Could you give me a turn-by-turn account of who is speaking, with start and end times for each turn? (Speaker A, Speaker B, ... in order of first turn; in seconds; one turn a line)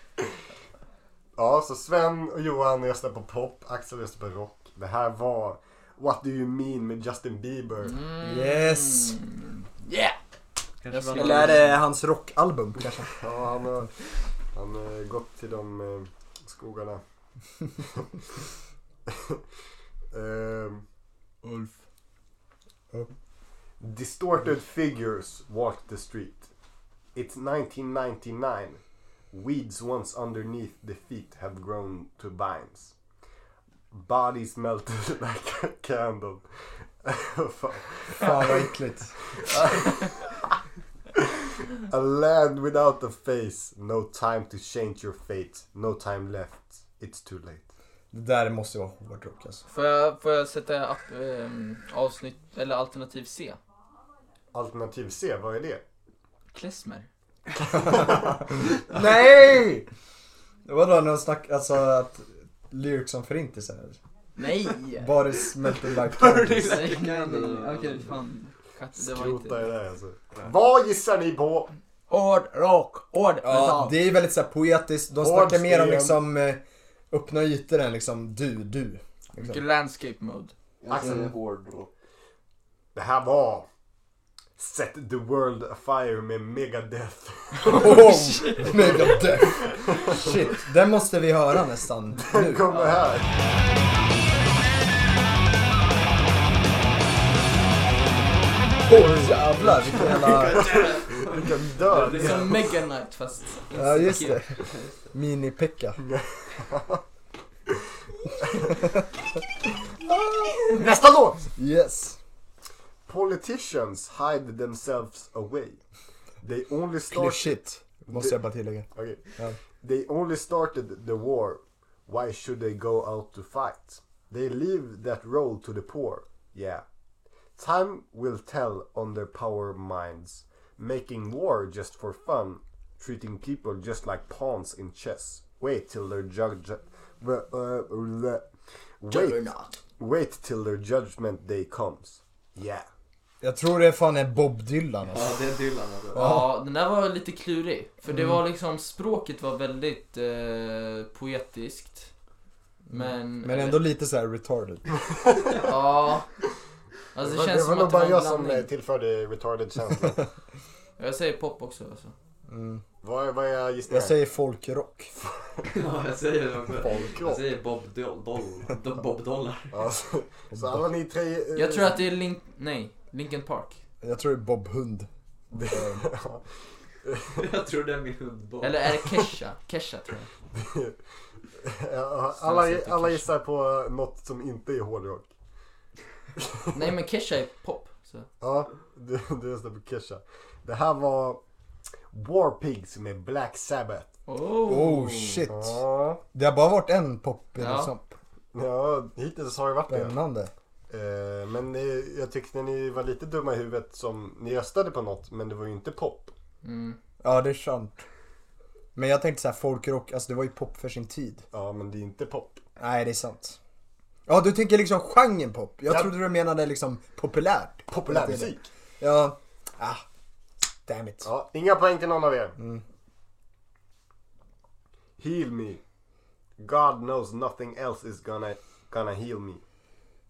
Speaker A: 1.4-8.0
Speaker B: 7.8-10.2
Speaker C: 8.2-9.2
Speaker D: 10.8-11.7
Speaker B: 10.9-11.7
Speaker C: 11.1-13.1
Speaker A: 13.2-13.9
Speaker A: 14.5-17.0
Speaker A: 19.1-19.4
Speaker A: 20.1-20.9
Speaker B: 21.4-21.8
Speaker A: 23.8-26.5
Speaker A: 27.1-28.8
Speaker A: 29.3-32.9
Speaker A: 33.9-38.7
Speaker C: 38.2-39.1
Speaker A: 39.4-40.0
Speaker A: 41.9-47.7
Speaker C: 48.1-49.6
Speaker B: 49.7-53.6
Speaker A: 54.5-55.8
Speaker B: 56.5-57.1
Speaker A: 57.8-58.4
Speaker C: 57.9-59.9
Speaker C: 60.7-64.0
Speaker B: 64.4-65.2
Speaker C: 65.0-66.8
Speaker D: 66.1-68.1
Speaker B: 66.5-69.7
Speaker A: 69.0-71.7
Speaker B: 72.1-74.0
Speaker C: 73.4-79.6
Speaker A: 75.2-76.2
Speaker B: 79.4-80.5
Speaker D: 80.8-81.9
Speaker A: 80.9-81.3
Speaker A: 83.0-83.7
Speaker A: 84.6-88.0
Speaker B: 87.6-89.2
Speaker C: 87.7-92.7
Speaker A: 89.2-90.3
Speaker A: 92.3-93.3
Speaker C: 98.8-100.9
Speaker D: 99.6-102.6
Speaker A: 100.0-102.5
Speaker B: 102.1-104.4
Speaker C: 103.7-106.0
Speaker D: 104.6-105.1
Speaker A: 106.0-107.0
Speaker C: 108.5-109.0
Speaker C: 110.0-110.8
Speaker A: 110.7-111.4
Speaker C: 111.5-112.2
Speaker A: 113.1-115.8
Speaker A: 116.4-118.4
Speaker C: 117.1-119.6
Speaker A: 118.9-119.2
Speaker A: 119.8-126.8
Speaker A: 127.6-138.5
Speaker A: 139.0-139.5
Speaker B: 139.1-139.8
Speaker A: 140.0-142.9
Speaker C: 143.4-145.3
Speaker D: 145.1-146.3
Speaker C: 146.1-146.6
Speaker B: 146.1-152.1
Speaker C: 148.1-148.4
Speaker B: 152.9-153.8
Speaker C: 152.9-154.9
Speaker B: 155.6-156.3
Speaker B: 157.1-158.7
Speaker A: 157.2-160.2
Speaker B: 161.0-162.1
Speaker C: 162.5-162.8
Speaker A: 163.0-164.2
Speaker C: 163.9-165.1
Speaker D: 165.7-169.8
Speaker A: 166.7-167.4
Speaker A: 169.7-172.0
Speaker C: 170.5-170.9
Speaker B: 171.6-173.8
Speaker C: 174.0-175.1
Speaker A: 175.5-176.4
Speaker C: 175.7-176.0
Speaker A: 177.0-177.3
Speaker D: 177.4-178.8
Speaker B: 178.6-180.3
Speaker A: 180.5-181.0
Speaker A: 181.6-185.3
Speaker B: 182.4-183.3
Speaker B: 186.7-188.3
Speaker A: 188.4-191.4
Speaker A: 192.1-194.1
Speaker B: 194.3-195.5
Speaker C: 194.7-198.2
Speaker A: 195.5-196.2
Speaker B: 197.6-197.9
Speaker A: 198.5-200.2
Speaker C: 199.9-200.5
Speaker A: 200.9-206.3
Speaker B: 206.6-207.0
Speaker C: 207.2-208.0
Speaker C: 208.9-211.4
Speaker A: 211.5-212.6
Speaker C: 212.8-213.6
Speaker C: 214.3-220.0
Speaker A: 217.9-218.7
Speaker C: 220.9-221.3
Speaker A: 221.2-222.6
Speaker C: 222.6-222.8
Speaker A: 225.2-225.8
Speaker A: 226.6-229.6